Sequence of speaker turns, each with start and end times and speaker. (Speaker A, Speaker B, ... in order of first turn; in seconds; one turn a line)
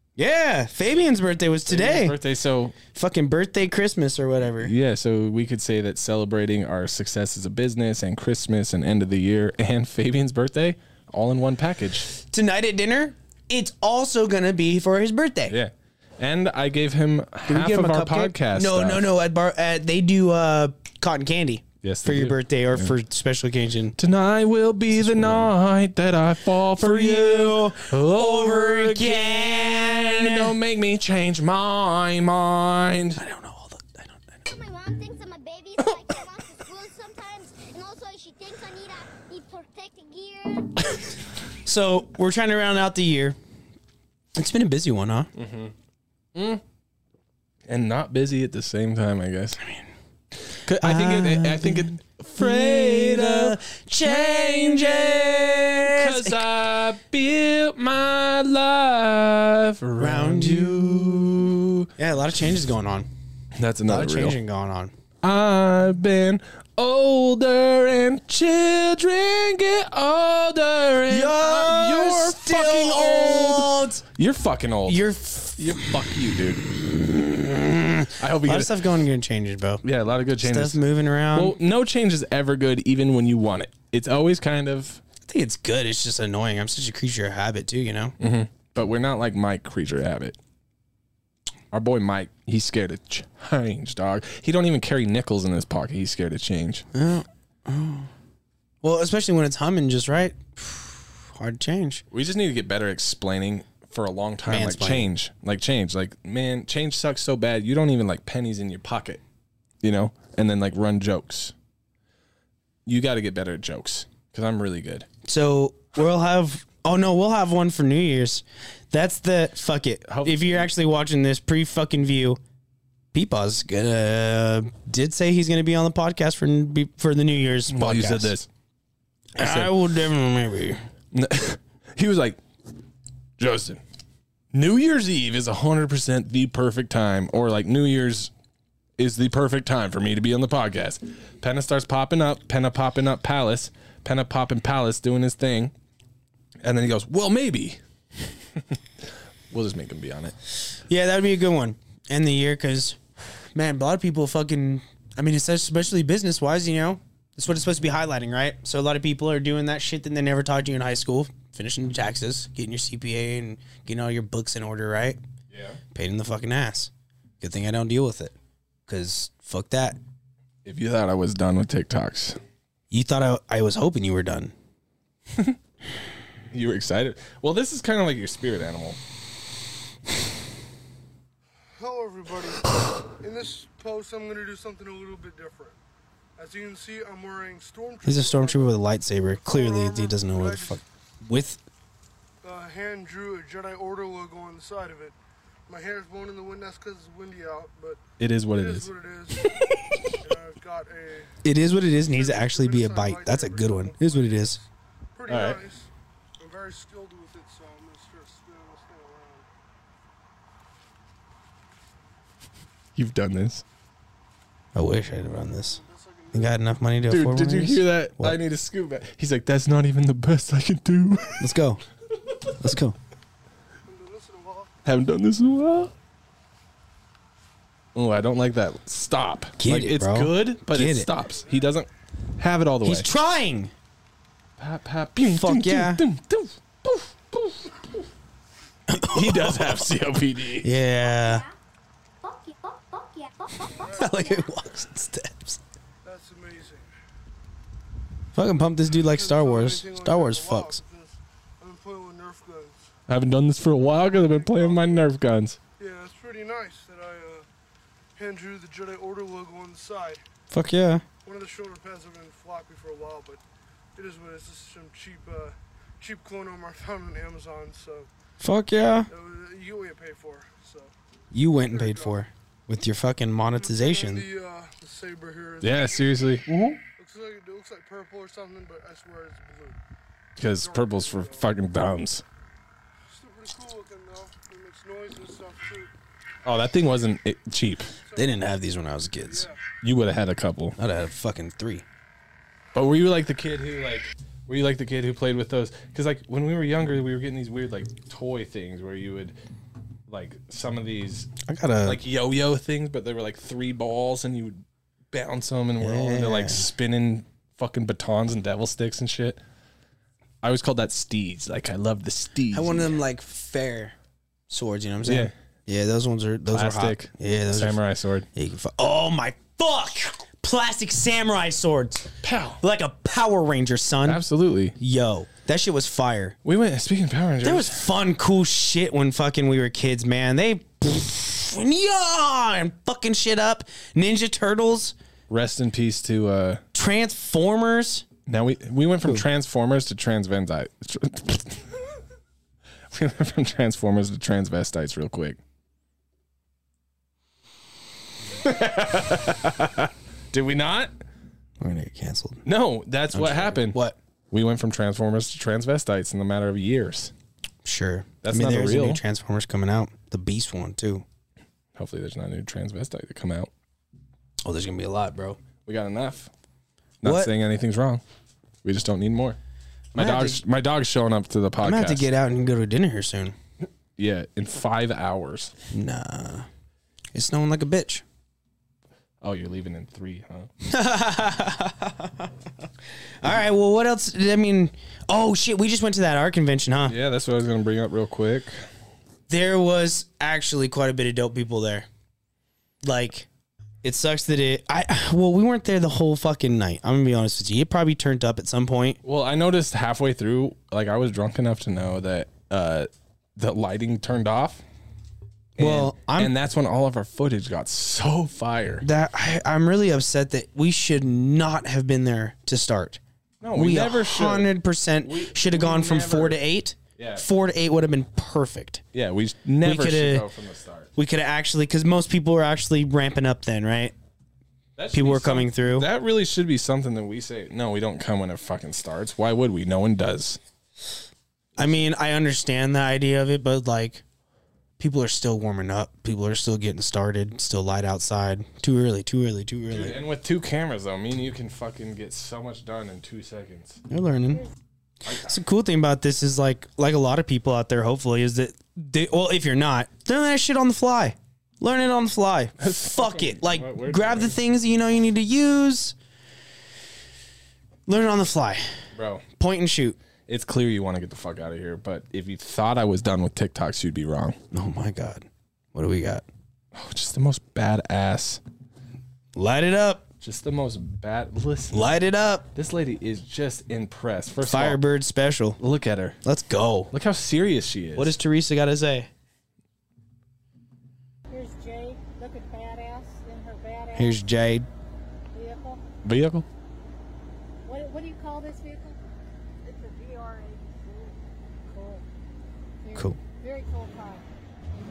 Speaker A: 0.2-2.2
Speaker B: 1.7-2.8
Speaker A: 2.9-4.7
Speaker B: 4.6-12.1
Speaker A: 12.2-15.6
Speaker B: 15.5-19.1
Speaker A: 17.5-24.0
Speaker B: 21.8-22.9
Speaker B: 24.0-33.2
Speaker A: 25.0-25.5
Speaker A: 26.8-30.5
Speaker A: 33.2-34.3
Speaker C: 34.5-40.8
Speaker B: 35.8-36.2
Speaker A: 41.7-43.4
Speaker A: 44.4-45.3
Speaker B: 45.4-45.7
Speaker B: 46.4-46.6
Speaker B: 47.7-49.6
Speaker B: 50.6-61.9
Speaker A: 50.8-56.4
Speaker A: 60.0-61.3
Speaker A: 62.0-63.1
Speaker B: 63.6-64.4
Speaker A: 63.9-64.9
Speaker B: 65.2-76.6
Speaker A: 71.1-74.0
Speaker A: 74.9-76.1
Speaker A: 76.7-79.8
Speaker B: 78.2-78.8
Speaker B: 79.8-80.8
Speaker A: 80.4-81.6
Speaker B: 81.3-85.0
Speaker A: 85.2-88.2
Speaker B: 88.2-90.4
Speaker B: 91.7-96.8
Speaker A: 96.9-98.1
Speaker A: 98.8-102.0
Speaker B: 102.1-109.2
Speaker A: 104.5-105.1
Speaker B: 109.8-111.5
Speaker B: 112.9-115.1
Speaker A: 115.2-122.4
Speaker B: 120.1-120.7
Speaker A: 123.1-128.3
Speaker B: 127.7-128.5
Speaker B: 129.4-129.8
Speaker A: 129.4-130.8
Speaker B: 131.1-132.4
Speaker B: 133.4-133.8
Speaker B: 134.5-138.3
Speaker B: 139.0-145.7
Speaker B: 146.6-147.8
Speaker B: 148.6-150.3
Speaker A: 150.9-153.0
Speaker A: 153.6-165.2
Speaker B: 165.5-165.8
Speaker A: 165.9-168.3
Speaker A: 168.9-170.0
Speaker B: 170.6-172.4
Speaker A: 172.9-174.5
Speaker B: 175.3-175.6
Speaker B: 176.5-179.0
Speaker D: 181.8-185.8
Speaker D: 186.4-188.8
Speaker A: 188.1-191.6
Speaker D: 189.3-190.8
Speaker D: 192.4-199.5
Speaker B: 198.2-198.9
Speaker B: 199.4-200.0
Speaker D: 200.2-201.3
Speaker A: 201.4-204.6
Speaker D: 202.1-209.5
Speaker B: 205.3-205.6
Speaker B: 213.0-213.6
Speaker A: 214.8-215.8
Speaker D: 215.4-216.6
Speaker A: 216.3-218.4
Speaker B: 217.1-221.6
Speaker A: 221.4-221.8
Speaker B: 222.2-222.8
Speaker A: 222.6-223.0
Speaker D: 223.8-224.7
Speaker B: 224.8-225.9
Speaker B: 227.9-233.1
Speaker A: 229.6-231.1
Speaker A: 232.8-233.7
Speaker B: 234.6-237.8
Speaker A: 235.3-236.0
Speaker A: 238.9-239.8
Speaker B: 239.1-240.7
Speaker A: 240.6-241.5
Speaker C: 241.0-241.5
Speaker C: 242.2-244.4
Speaker D: 243.8-244.1
Speaker A: 244.0-245.6
Speaker D: 246.0-246.9
Speaker A: 248.3-250.8
Speaker D: 249.1-252.9
Speaker B: 253.1-255.6
Speaker D: 253.8-255.1
Speaker D: 255.8-257.5
Speaker D: 258.2-260.2
Speaker A: 260.5-261.0
Speaker D: 261.2-263.4
Speaker D: 264.0-268.1
Speaker A: 268.4-269.1
Speaker D: 269.1-270.9
Speaker A: 271.3-274.3
Speaker D: 271.6-272.2
Speaker D: 273.6-276.2
Speaker B: 275.6-276.8
Speaker D: 277.0-279.8
Speaker B: 280.4-282.2
Speaker D: 280.5-281.5
Speaker D: 283.1-285.9
Speaker B: 286.4-287.9
Speaker D: 288.0-288.4
Speaker A: 288.1-289.5
Speaker D: 289.2-289.6
Speaker B: 289.8-290.8
Speaker A: 290.8-291.9
Speaker B: 292.7-299.4
Speaker B: 300.1-301.3
Speaker A: 301.4-302.0
Speaker B: 301.9-309.4
Speaker A: 305.8-306.7
Speaker B: 310.4-313.0
Speaker A: 312.5-313.9
Speaker A: 314.5-317.8
Speaker B: 315.0-315.3
Speaker B: 316.5-318.3
Speaker A: 318.3-324.2
Speaker B: 322.2-322.6
Speaker B: 324.1-324.8
Speaker A: 324.8-326.4
Speaker B: 326.4-327.9
Speaker A: 327.4-334.9
Speaker B: 335.3-336.6
Speaker A: 336.7-338.1
Speaker B: 338.3-341.8
Speaker B: 342.9-345.4
Speaker B: 348.3-350.9
Speaker A: 351.6-352.4
Speaker B: 352.4-353.8
Speaker A: 353.1-354.0
Speaker B: 354.3-357.1
Speaker A: 357.6-361.1
Speaker B: 358.2-359.0
Speaker B: 361.8-363.5
Speaker A: 364.4-365.4
Speaker B: 365.6-366.3
Speaker B: 367.0-368.0
Speaker A: 367.0-367.3
Speaker B: 368.6-369.4
Speaker B: 369.9-372.1
Speaker A: 369.9-370.4
Speaker A: 371.6-373.4
Speaker B: 374.0-375.5
Speaker A: 375.7-376.5
Speaker A: 377.1-378.0
Speaker B: 379.2-380.5
Speaker A: 380.6-382.3
Speaker A: 383.2-386.9
Speaker B: 386.9-388.6
Speaker A: 389.3-391.9
Speaker A: 392.8-393.3
Speaker A: 393.8-399.0
Speaker B: 399.0-404.6
Speaker B: 405.6-408.9
Speaker A: 405.6-406.3
Speaker A: 408.8-413.0
Speaker B: 413.4-416.4
Speaker A: 413.5-418.8
Speaker B: 417.0-417.2
Speaker B: 418.9-420.9
Speaker A: 419.6-420.3
Speaker A: 420.9-423.9
Speaker B: 424.8-430.4
Speaker A: 424.9-425.9
Speaker A: 431.6-434.0
Speaker A: 434.8-440.0
Speaker B: 439.7-443.8
Speaker A: 443.9-444.4
Speaker A: 445.1-456.0
Speaker B: 452.6-454.4
Speaker A: 457.9-458.7
Speaker B: 458.9-459.2
Speaker A: 459.4-460.0
Speaker B: 460.3-464.4
Speaker A: 464.5-466.2
Speaker B: 466.7-468.4
Speaker A: 469.4-470.0
Speaker B: 470.2-472.0
Speaker A: 471.7-472.5
Speaker B: 472.5-474.8
Speaker A: 474.4-475.6
Speaker B: 475.6-476.2
Speaker A: 476.2-476.9
Speaker B: 476.9-478.2
Speaker A: 478.0-479.1
Speaker E: 481.3-484.3
Speaker A: 484.0-484.7
Speaker E: 485.3-485.8
Speaker B: 486.0-486.5
Speaker E: 487.6-489.0
Speaker E: 489.6-492.0
Speaker E: 492.8-494.2